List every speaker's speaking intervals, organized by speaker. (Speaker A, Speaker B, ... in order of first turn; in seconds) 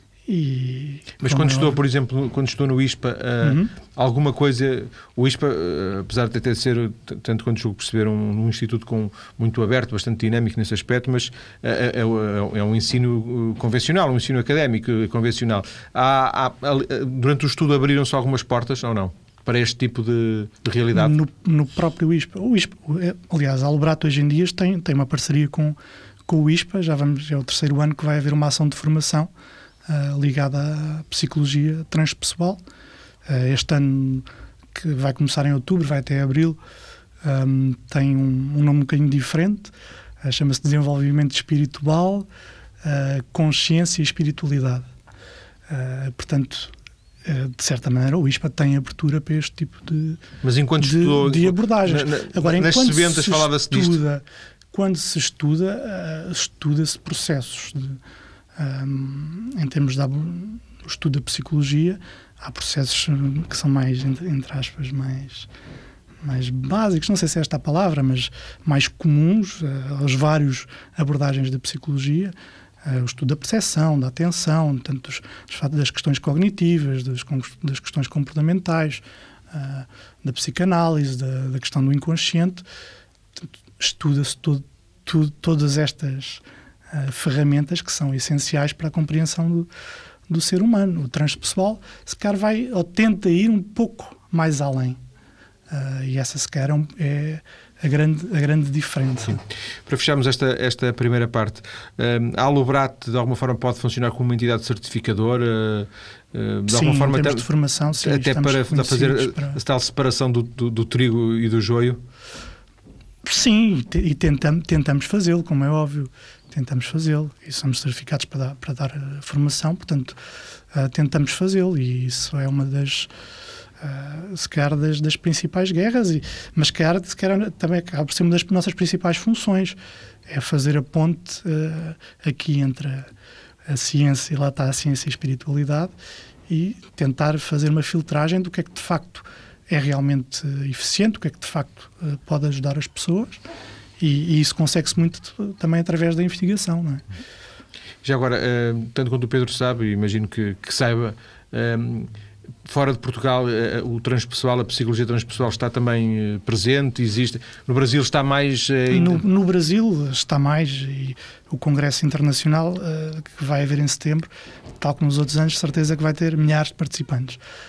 Speaker A: 0.2-1.8, 3.4-3.7, 20.9-29.3, 29.9-32.6, 33.3-36.6, 37.2-39.7, 40.2-42.3, 42.8-44.9, 45.7-46.7, 47.2-50.2, 50.8-58.0, 58.6-65.5, 66.2-72.3, 72.8-82.6, 83.8-89.7, 90.3-95.0, 95.7-99.4, 106.7-109.6, 113.2-120.2, 120.7-123.1, 123.8-133.1, 133.7-135.9, 136.5-143.4, 144.0-147.0, 158.9-164.3, 164.8-167.4
Speaker B: 1.2-21.1, 50.4-54.0, 99.8-107.5, 108.0-112.0, 148.0-152.1, 152.6-159.2